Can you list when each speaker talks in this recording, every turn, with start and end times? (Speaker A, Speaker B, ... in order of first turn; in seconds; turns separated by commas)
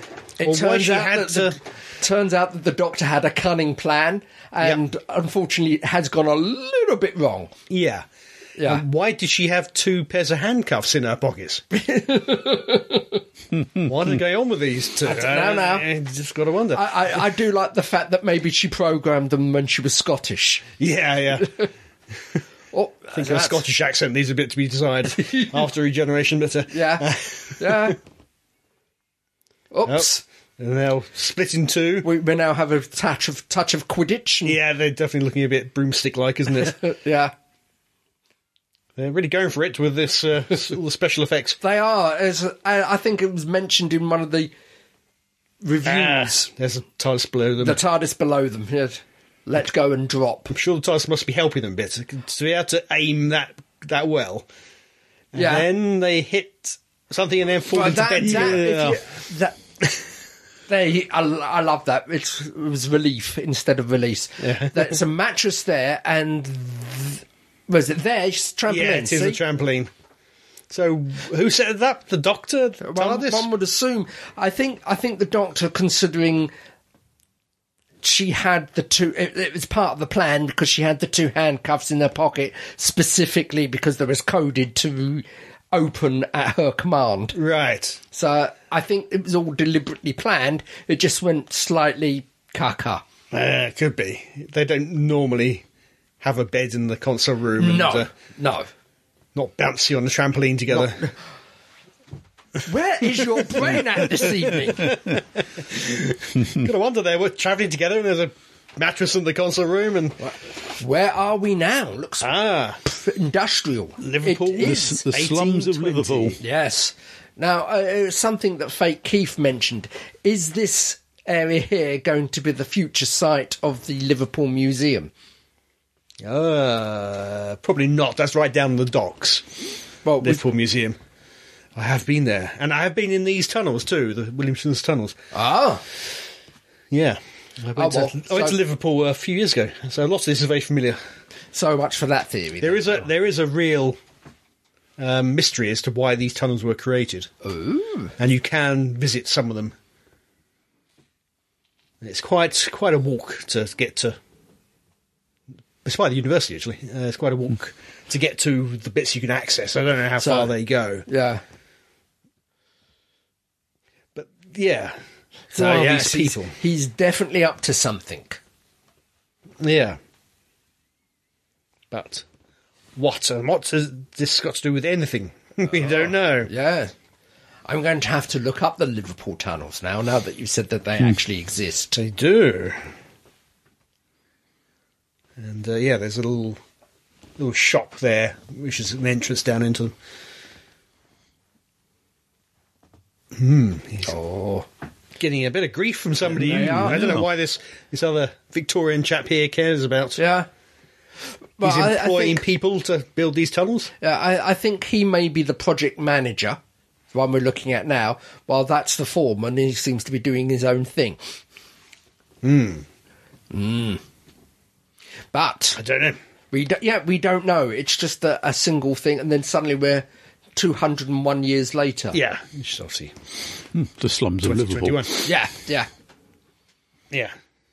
Speaker A: 0.4-7.5, Speaker B: 0.4-1.6, Speaker B: 7.7-8.1, Speaker A: 8.6-8.8, Speaker B: 8.6-11.6, Speaker A: 11.7-13.2, Speaker B: 13.8-16.9, Speaker A: 15.0-15.8, Speaker A: 16.7-20.6, Speaker B: 20.8-21.6, Speaker A: 21.4-21.7, Speaker A: 22.7-23.6, Speaker B: 23.1-27.9, Speaker A: 25.1-25.6, Speaker A: 26.7-28.0, Speaker A: 29.7-30.2, Speaker B: 29.9-32.1, Speaker A: 32.0-34.6, Speaker B: 34.4-36.8, Speaker A: 36.5-37.3, Speaker B: 39.0-41.6, Speaker A: 41.6-44.5, Speaker A: 45.6-46.5, Speaker B: 45.8-47.8, Speaker A: 47.6-50.5, Speaker B: 50.5-54.5, Speaker B: 55.3-59.0, Speaker A: 55.3-55.7, Speaker A: 57.7-59.6, Speaker C: 58.2-58.7, Speaker A: 60.7-69.4, Speaker B: 64.4-65.0, Speaker B: 68.7-69.9, Speaker B: 70.7-73.5, Speaker A: 72.8-76.5, Speaker A: 78.0-87.3, Speaker B: 87.3-88.0, Speaker A: 88.1-93.0, Speaker B: 93.3-95.6, Speaker B: 96.2-98.1, Speaker A: 97.6-98.7, Speaker B: 99.3-101.1, Speaker A: 100.8-101.1, Speaker A: 102.6-105.0, Speaker B: 104.8-110.2, Speaker A: 110.2-112.3, Speaker B: 112.2-112.8, Speaker A: 112.8-115.0, Speaker B: 114.0-116.4, Speaker C: 114.6-116.4, Speaker A: 116.4-125.1, Speaker B: 126.2-129.6, Speaker A: 130.0-130.4, Speaker B: 130.2-131.0, Speaker B: 131.7-135.1, Speaker A: 135.3-135.8, Speaker B: 136.9-141.0, Speaker A: 137.8-138.6, Speaker A: 141.5-143.1, Speaker B: 142.6-144.0, Speaker B: 145.0-147.3, Speaker A: 147.4-148.1, Speaker B: 148.2-149.8, Speaker B: 152.0-154.2, Speaker B: 155.8-161.0, Speaker A: 160.2-160.5, Speaker A: 161.1-161.4, Speaker B: 164.1-165.0, Speaker B: 165.5-166.5, Speaker A: 165.5-168.4, Speaker B: 169.6-170.0, Speaker B: 171.9-172.2, Speaker B: 172.9-176.5, Speaker A: 176.5-176.9, Speaker A: 177.7-182.0, Speaker B: 181.9-182.8, Speaker B: 185.4-186.6, Speaker B: 187.4-189.9, Speaker B: 193.3-194.1, Speaker A: 194.0-194.7, Speaker B: 195.2-200.2, Speaker A: 196.2-197.2, Speaker C: 196.6-197.2, Speaker A: 200.2-200.5, Speaker A: 201.6-202.4, Speaker B: 201.6-203.9, Speaker A: 204.0-206.6, Speaker A: 207.1-211.2, Speaker B: 212.4-212.8, Speaker A: 213.5-214.0, Speaker A: 215.3-215.8, Speaker B: 215.8-216.2, Speaker A: 216.5-222.2, Speaker B: 222.1-223.1, Speaker C: 223.7-225.0, Speaker B: 224.4-225.2, Speaker A: 225.2-225.9